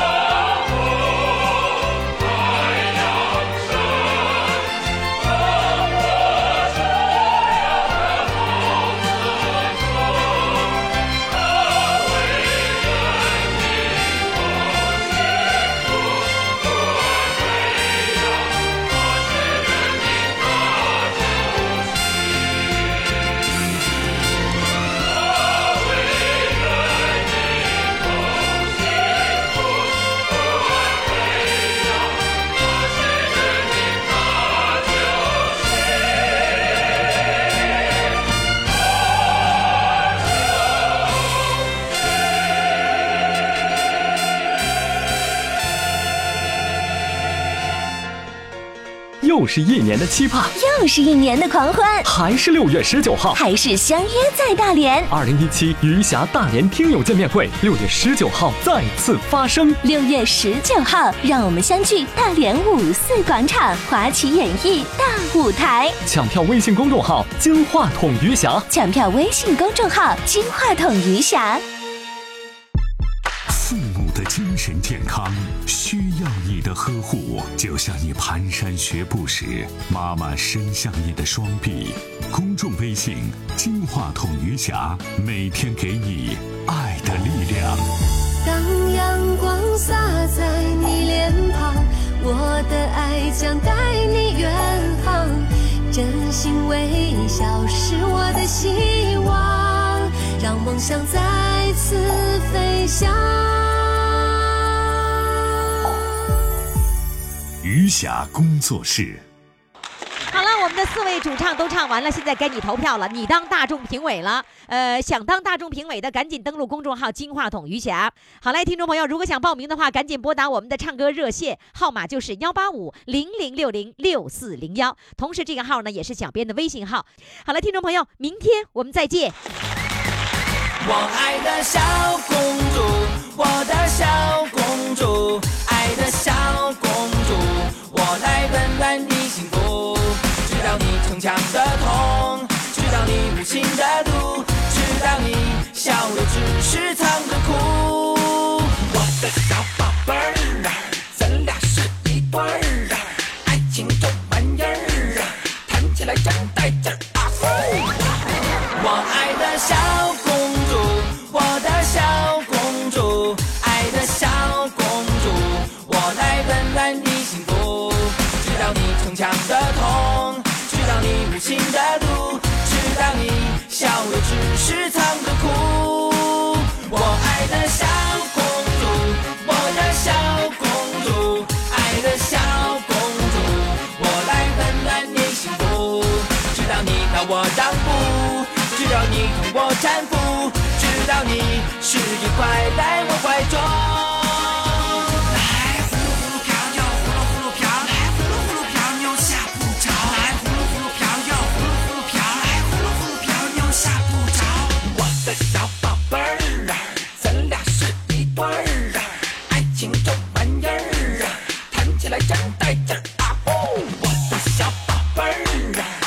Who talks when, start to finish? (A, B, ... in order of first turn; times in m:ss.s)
0:49.2-0:50.5 A
0:50.5-0:52.1 B
0:52.0-0:53.4 A
0:53.3-0:55.1 B
0:55.1-0:59.8 A
0:59.8-1:06.0 B
1:06.0-1:08.6 A
1:08.7-1:11.6 B
1:13.5-1:27.9 C
1:28.4-1:44.5 D
1:47.6-1:49.2 C
1:50.3-2:09.3 E
2:10.8-2:37.4 F
2:38.7-3:15.4 F
3:16.8-3:21.1 F
3:23.2-3:24.2 F
3:26.1-3:26.6 F
3:27.2-3:27.6 F
3:28.1-3:28.4 F
3:29.5-3:31.2 F
3:31.7-3:32.7 F
3:35.2-3:35.6 F